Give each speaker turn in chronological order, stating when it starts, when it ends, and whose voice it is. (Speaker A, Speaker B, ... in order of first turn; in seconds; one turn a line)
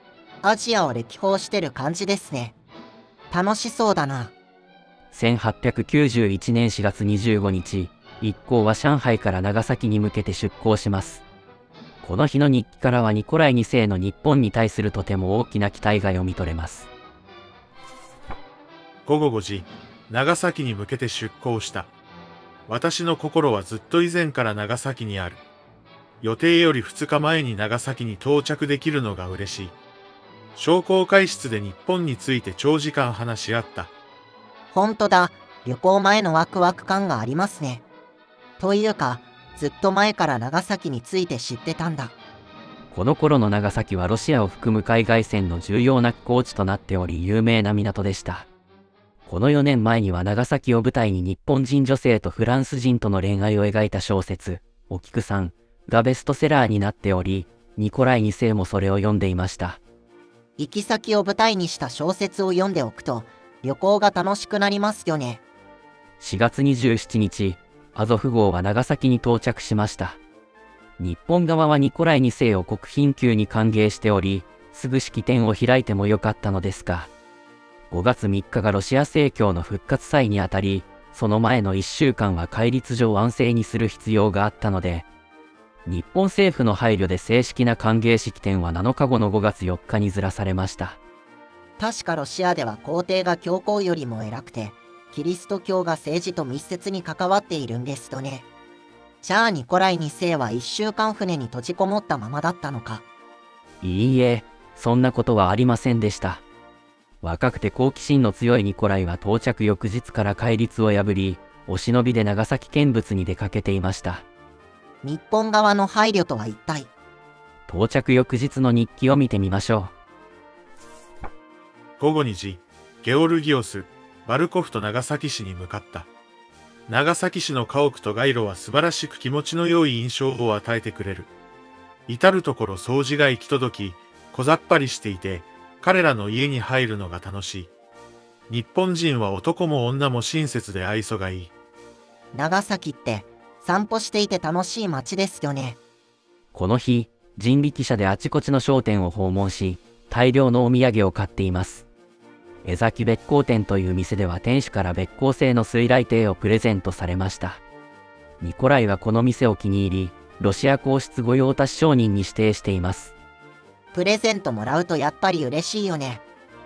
Speaker A: 0.4-2.5
Speaker A: 3.3-4.3
Speaker B: 5.1-11.2
Speaker B: 12.0-16.9
Speaker C: 19.1-21.9
Speaker C: 22.7-25.4
Speaker C: 26.2-29.8
Speaker C: 30.5-33.9
Speaker A: 34.7-37.9
Speaker A: 38.6-42.1
Speaker B: 42.9-48.5
Speaker B: 49.2-59.8
Speaker A: 60.6-65.4
Speaker B: 66.2-70.2
Speaker B: 71.0-77.1
Speaker B: 77.9-85.1
Speaker B: 85.8-91.0
Speaker A: 91.8-98.5
Speaker A: 99.2-103.0
Speaker B: 103.8-106.4
Speaker B: 107.2-114.2
Speaker A: 115.0-116.9
Speaker B: 117.7-119.9
Speaker C: 122.0-126.1
Speaker C: 126.9-131.3
Speaker C: 132.1-137.7
Speaker C: 138.5-141.5
Speaker A: 142.3-145.8
Speaker B: 146.5-151.9
Speaker B: 152.6-157.6
Speaker B: 158.4-163.1
Speaker A: 163.9-166.2